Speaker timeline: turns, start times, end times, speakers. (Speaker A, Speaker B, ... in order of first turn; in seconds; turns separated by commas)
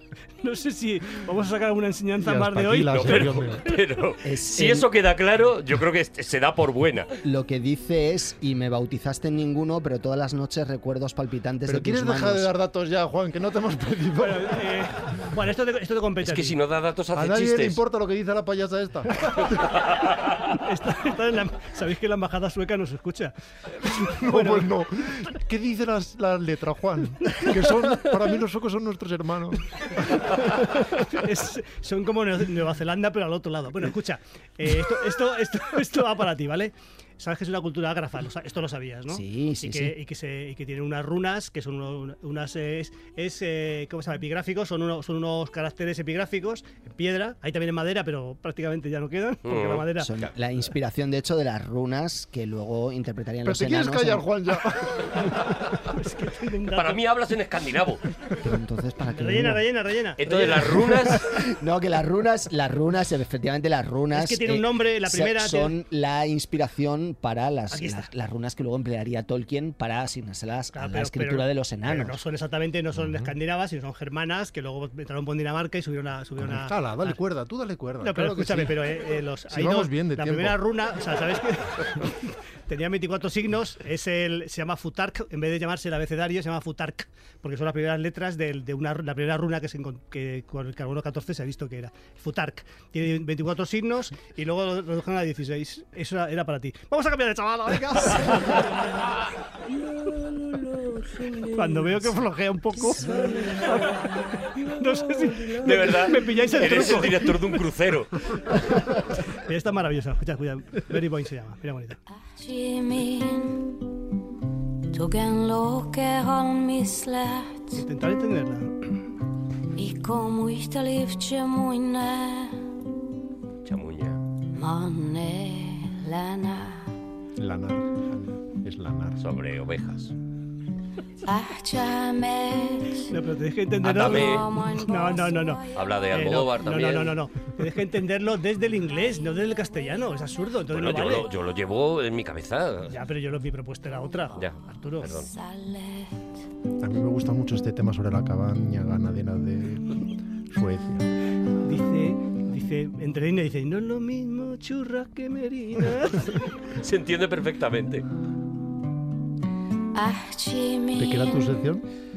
Speaker A: 0.4-3.4, Speaker B: 2.2-3.7, Speaker C: 2.9-7.1, Speaker D: 4.2-4.9, Speaker D: 7.2-12.5, Speaker B: 11.7-14.7, Speaker A: 14.2-16.5, Speaker C: 16.2-17.8, Speaker B: 17.1-19.7, Speaker A: 20.5-24.7, Speaker B: 23.9-30.2, Speaker A: 30.1-50.1, Speaker D: 39.1-40.0, Speaker C: 49.5-50.3, Speaker D: 50.0-54.3, Speaker B: 53.4-55.5, Speaker A: 55.9-57.0, Speaker C: 56.7-58.0, Speaker D: 58.4-59.6, Speaker A: 59.1-61.1, Speaker C: 60.2-61.3, Speaker D: 61.1-72.2, Speaker A: 64.1-65.7, Speaker A: 67.7-68.1, Speaker A: 70.7-77.2, Speaker B: 73.0-73.3, Speaker B: 76.4-78.9, Speaker A: 78.0-98.7, Speaker B: 79.5-80.6, Speaker E: 101.1-101.6, Speaker A: 101.4-107.4, Speaker E: 103.1-103.7, Speaker E: 105.2-105.6, Speaker C: 105.6-108.2, Speaker A: 108.9-112.0, Speaker E: 112.3-113.8, Speaker E: 114.9-117.8, Speaker A: 117.8-118.7, Speaker E: 119.8-122.6, Speaker C: 123.7-124.2, Speaker E: 124.5-126.9, Speaker B: 127.4-129.2, Speaker C: 129.2-130.1, Speaker E: 131.3-133.1, Speaker A: 133.1-141.3, Speaker C: 133.8-134.5, Speaker E: 133.9-135.8, Speaker C: 135.7-137.2, Speaker C: 140.7-142.9, Speaker A: 142.9-145.2, Speaker C: 144.4-145.3, Speaker E: 145.2-146.3, Speaker B: 146.8-151.1, Speaker A: 151.6-156.5, Speaker C: 156.8-158.0, Speaker E: 159.9-161.6, Speaker B: 160.9-161.8